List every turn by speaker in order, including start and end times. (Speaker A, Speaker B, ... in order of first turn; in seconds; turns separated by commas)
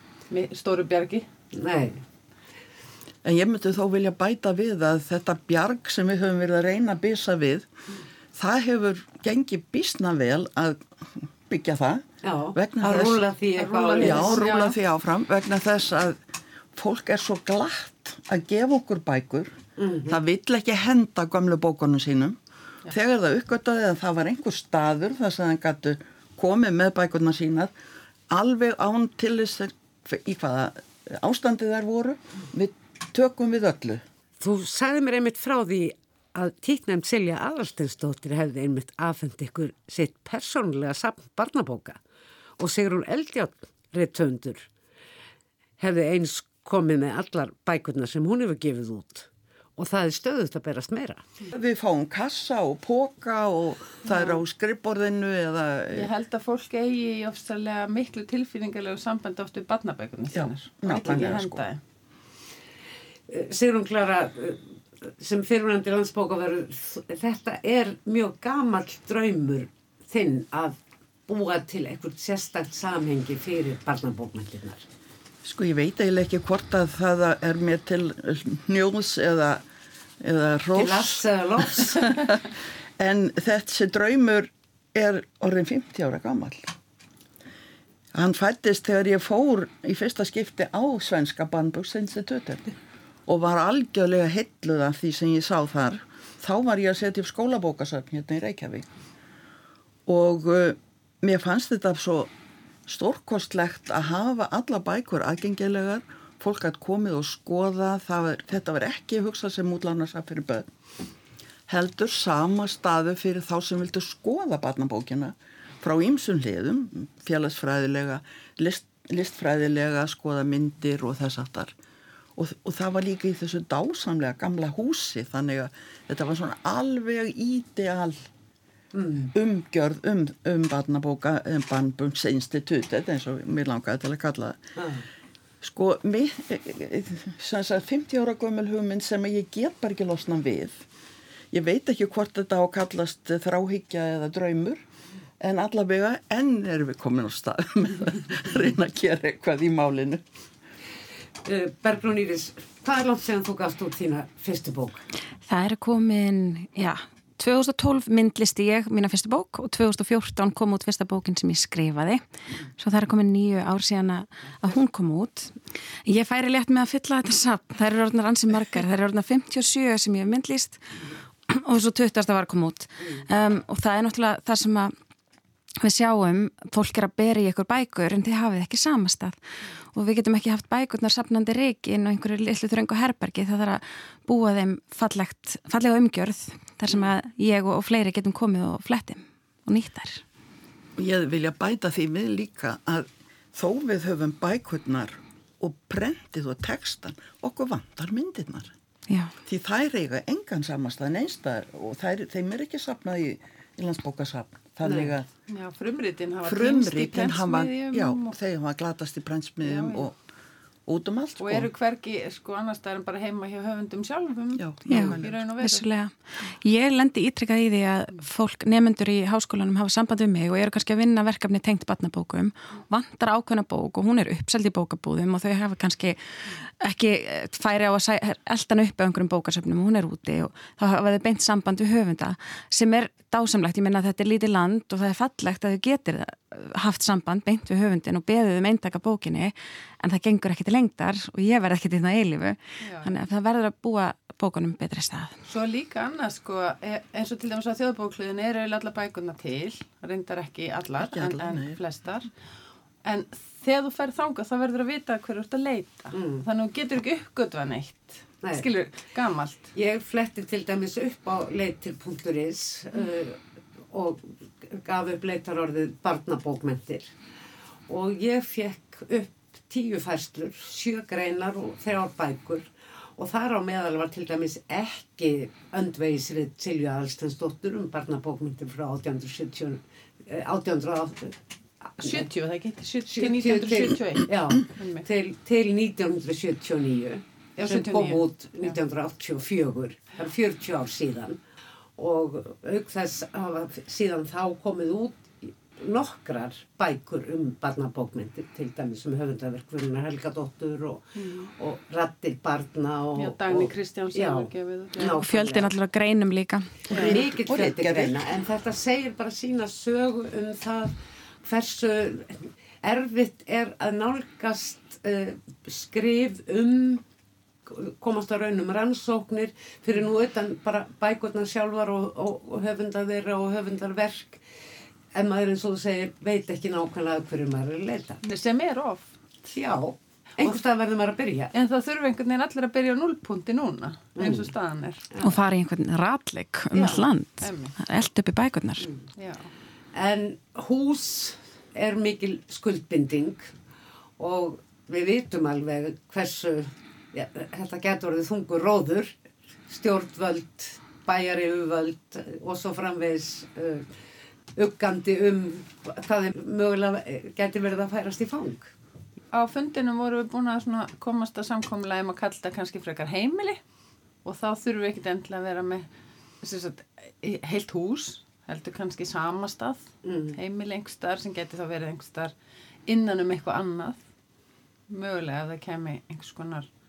Speaker A: 0.3-1.3, Speaker B: 1.5-2.0, Speaker C: 3.2-7.7, Speaker C: 8.3-13.2, Speaker B: 12.2-14.4, Speaker A: 13.6-14.8, Speaker C: 14.0-16.2, Speaker C: 16.7-19.6, Speaker B: 19.8-20.2, Speaker C: 20.1-27.7, Speaker C: 28.3-34.0, Speaker B: 34.4-42.0, Speaker B: 42.6-44.7, Speaker B: 45.8-51.2, Speaker C: 51.5-56.1, Speaker A: 54.0-54.4, Speaker A: 55.9-61.8, Speaker C: 60.3-61.6, Speaker B: 63.3-74.9, Speaker C: 75.4-79.7, Speaker C: 80.2-82.5, Speaker B: 80.7-82.1, Speaker C: 83.0-86.7, Speaker C: 88.1-92.7, Speaker C: 93.3-98.9, Speaker C: 100.1-102.3, Speaker C: 102.8-110.7, Speaker C: 111.7-121.8, Speaker C: 122.3-128.3, Speaker B: 128.9-129.3, Speaker C: 129.3-134.6, Speaker B: 134.8-135.0, Speaker C: 135.6-140.9, Speaker C: 141.5-144.8, Speaker C: 145.4-150.2, Speaker B: 151.4-155.0, Speaker D: 155.4-162.2, Speaker D: 162.8-174.9, Speaker D: 175.8-179.4, Speaker D: 179.9-190.2, Speaker C: 191.0-198.7, Speaker C: 199.4-205.3, Speaker B: 204.8-205.1, Speaker A: 205.5-208.3, Speaker C: 206.4-210.2, Speaker A: 209.6-210.1, Speaker C: 210.9-211.7, Speaker A: 211.4-215.9, Speaker C: 214.6-215.3, Speaker D: 214.9-245.3, Speaker A: 242.8-243.1, Speaker A: 245.4-252.3, Speaker C: 251.0-251.8, Speaker A: 253.0-259.7, Speaker B: 256.1-256.4, Speaker B: 259.7-267.1, Speaker B: 267.9-282.3, Speaker A: 282.0-285.0, Speaker B: 283.1-291.4, Speaker A: 287.6-288.7, Speaker B: 292.0-305.7, Speaker A: 301.1-301.5, Speaker A: 303.1-305.2, Speaker D: 305.1-307.0, Speaker A: 306.9-307.2, Speaker B: 306.9-317.0, Speaker C: 306.9-308.2, Speaker B: 317.6-324.4, Speaker B: 325.1-328.2, Speaker A: 328.2-329.1, Speaker B: 329.5-331.5, Speaker A: 331.5-335.1, Speaker B: 334.1-334.5, Speaker B: 335.1-335.4, Speaker D: 335.2-338.9, Speaker A: 336.7-337.7, Speaker B: 338.8-339.1, Speaker A: 339.2-339.5, Speaker B: 339.9-343.5, Speaker B: 344.2-349.1, Speaker B: 349.7-353.9, Speaker B: 354.6-358.7, Speaker A: 359.3-363.6, Speaker A: 364.2-365.9, Speaker A: 366.4-372.3, Speaker B: 370.0-370.4, Speaker A: 372.9-374.0, Speaker A: 374.9-376.7